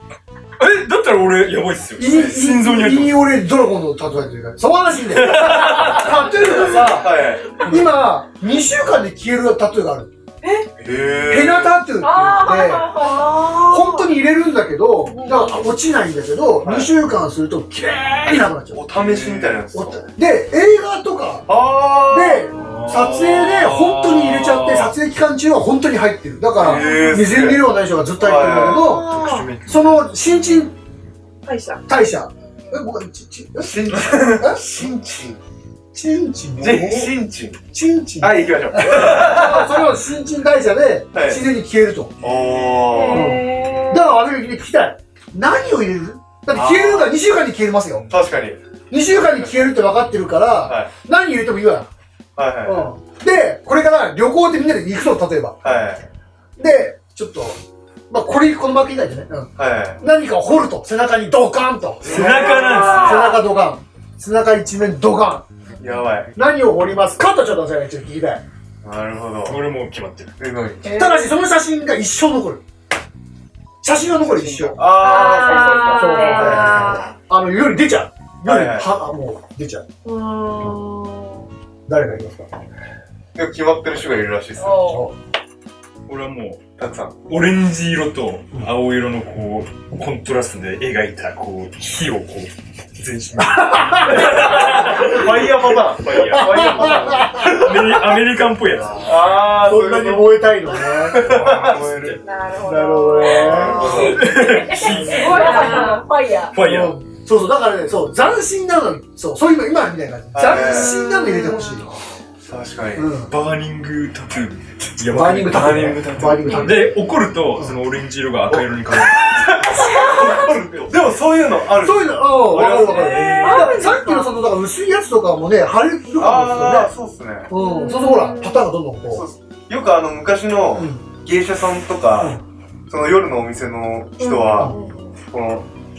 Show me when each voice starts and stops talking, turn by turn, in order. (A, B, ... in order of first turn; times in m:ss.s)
0:00.6-0:03.2 A
0:02.0-0:10.1 B
0:05.1-0:06.1 A
0:06.6-0:07.6 C
0:10.4-0:10.7 D
0:10.8-0:11.8 C
0:11.3-0:21.5 B
0:12.0-0:13.4 E
0:13.0-0:14.2 D
0:15.1-0:15.6 D
0:16.6-0:16.9 C
0:18.7-0:20.1 C
0:21.5-0:22.5 C
0:22.1-0:29.1 B
0:22.6-0:24.9 A
0:26.6-0:27.6 C
0:26.7-0:27.4 D
0:28.2-0:29.0 C
0:28.6-0:29.5 D
0:29.0-0:30.1 A
0:29.7-0:30.7 B
0:31.4-0:31.8 D
0:31.9-0:34.6 B
0:32.5-0:32.9 E
0:33.6-0:35.4 C
0:35.9-0:37.1 B
0:36.6-0:37.6 C
0:37.7-0:42.2 B
0:38.2-0:39.8 C
0:41.1-0:41.4 C
0:42.2-0:43.4 C
0:42.5-0:42.7 A
0:42.8-0:44.1 D
0:43.1-0:48.1 B
0:46.5-0:47.2 C
0:48.1-0:48.6 C
0:48.9-0:51.9 B
0:49.2-0:49.7 C
0:50.6-0:50.9 C
0:52.4-0:52.9 C
0:52.6-0:55.8 B
0:55.6-0:56.1 C
0:56.6-0:57.6 B
0:58.1-1:05.5 B
0:59.6-1:00.0 C
1:02.0-1:03.4 A
1:02.0-1:03.0 C
1:02.6-1:03.3 D
1:05.7-1:06.0 E
1:05.8-1:06.3 C
1:06.4-1:08.4 B
1:08.8-1:09.7 C
1:09.5-1:10.4 A
1:10.4-1:10.8 C
1:10.8-1:11.3 E
1:10.8-1:12.6 B
1:13.8-1:14.9 B
1:14.3-1:17.0 C
1:14.9-1:17.1 D
1:15.0-1:16.9 E
1:15.8-1:19.8 B
1:18.4-1:18.9 C
1:20.0-1:21.5 D
1:21.9-1:22.5 B
1:23.4-1:25.0 C
1:24.6-1:25.1 E
1:24.9-1:25.1 B
1:26.1-1:26.6 A
1:26.8-1:27.3 C
1:27.3-1:35.5 A
1:33.4-1:35.2 B
1:34.2-1:37.9 C
1:36.0-1:39.4 A
1:36.1-1:37.8 B
1:39.0-1:42.2 C
1:39.5-1:41.4 B
1:41.1-1:42.2 A
1:42.2-1:44.1 D
1:42.6-1:44.2 B
1:43.2-1:44.2 C
1:43.7-1:46.6 E
1:43.7-1:46.0 A
1:44.8-1:46.0 D
1:46.5-1:47.0 A
1:46.6-1:52.0 B
1:50.3-1:51.0 C
1:50.4-1:51.9 D
1:52.4-1:53.2 C
1:53.0-1:53.3 B
1:53.3-2:00.8 A
1:55.0-1:57.0 B
1:58.5-2:04.0 C
1:59.9-2:00.4 E
2:01.7-2:06.9 B
2:02.7-2:04.3 D
2:03.4-2:03.8 E
2:06.2-2:07.5 C
2:07.5-2:09.3 B
2:07.6-2:08.7 D
2:07.7-2:08.1 E
2:09.1-2:14.7 C
2:10.8-2:11.0 B
2:14.2-2:14.9 D
2:14.7-2:15.1 E
2:15.3-2:15.7 C